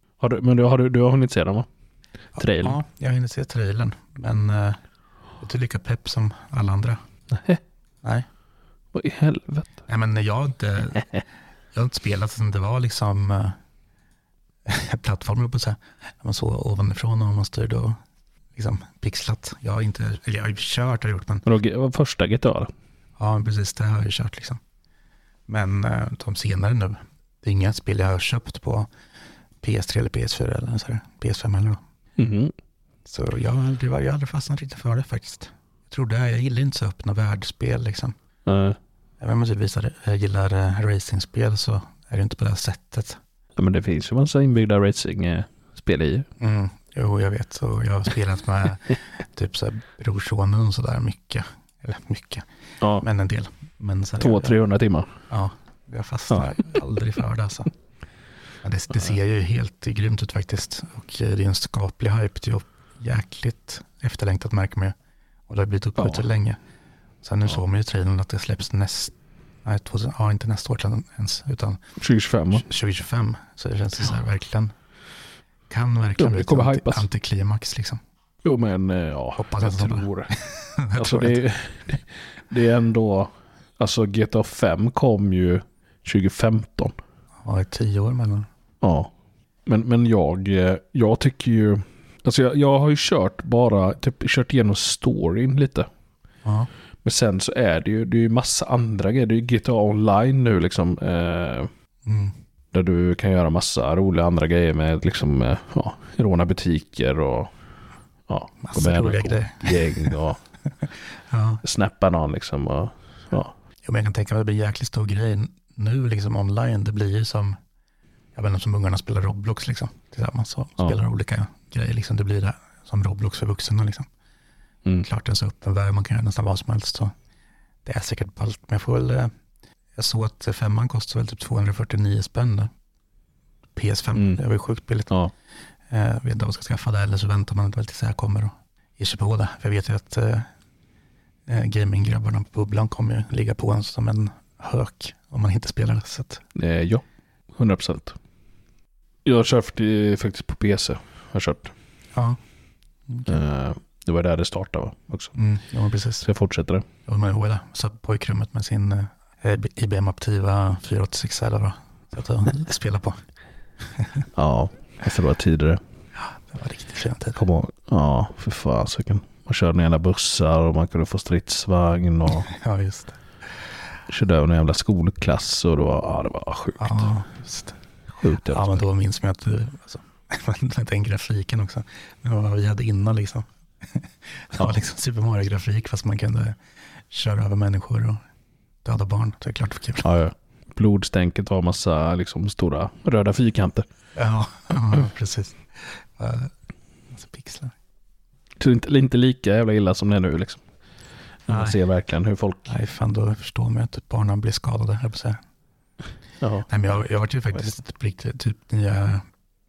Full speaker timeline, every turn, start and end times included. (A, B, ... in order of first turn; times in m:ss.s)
0:00.2-0:01.7 A
0:02.4-0:04.8 B
0:02.4-0:02.8 A
0:05.4-0:07.0 B
0:07.3-0:07.6 A
0:08.9-0:09.7 A
0:09.9-0:11.2 B
0:11.7-0:13.6 B
0:14.7-0:18.0 B
0:18.6-0:21.5 B
0:21.5-0:22.7 A
0:23.2-0:24.6 B
0:25.5-0:28.9 B
0:29.6-0:31.8 B
0:32.2-0:32.5 A
0:33.1-0:38.2 B
0:38.5-0:38.8 A
0:39.2-0:43.2 B
0:43.6-0:46.3 A
0:46.4-0:52.5 B
0:53.0-0:54.6 B
0:54.2-0:55.1 A
0:55.3-0:57.7 B
0:58.6-1:05.0 B
1:05.5-1:06.6 B
1:06.0-1:06.3 A
1:07.2-1:11.8 B
1:12.0-1:12.7 A
1:12.6-1:14.7 B
1:15.7-1:18.0 B
1:16.2-1:17.1 A
1:18.4-1:20.3 A
1:19.4-1:21.4 B
1:21.0-1:27.0 A
1:27.4-1:28.5 B
1:28.8-1:29.1 A
1:29.7-1:35.9 A
1:36.4-1:36.7 B
1:37.0-1:41.7 A
1:42.0-1:42.4 B
1:42.7-1:47.5 A
1:48.3-1:50.4 A
1:48.6-1:50.2 B
1:51.3-1:51.6 B
1:51.6-1:53.5 A
1:53.8-1:57.6 B
1:58.4-2:04.1 B
2:05.0-2:07.1 B
2:07.8-2:09.3 B
2:10.0-2:12.7 B
2:13.8-2:15.2 B
2:14.2-2:14.4 A
2:15.9-2:20.5 B
2:21.5-2:26.4 B
2:26.6-2:27.0 A
2:27.6-2:28.2 A
2:29.2-2:31.7 A
2:32.1-2:32.4 B
2:33.1-2:33.3 B
2:33.3-2:35.4 A
2:35.4-2:36.3 B
2:36.2-2:36.8 A
2:37.1-2:43.2 B
2:44.0-2:44.2 B
2:44.4-2:45.8 A
2:46.2-2:47.4 B
2:47.4-2:52.5 A
2:52.3-2:53.2 B
2:54.1-2:57.1 A
2:56.8-2:57.8 B
2:58.2-2:58.8 A
2:58.4-3:06.6 B
3:07.1-3:08.2 B
3:08.8-3:10.1 B
3:10.0-3:13.8 A
3:14.2-3:16.5 B
3:17.1-3:17.8 B
3:18.6-3:20.6 A
3:21.5-3:22.7 A
3:21.5-3:21.8 B
3:22.7-3:25.4 B
3:26.4-3:26.7 A
3:26.7-3:29.3 B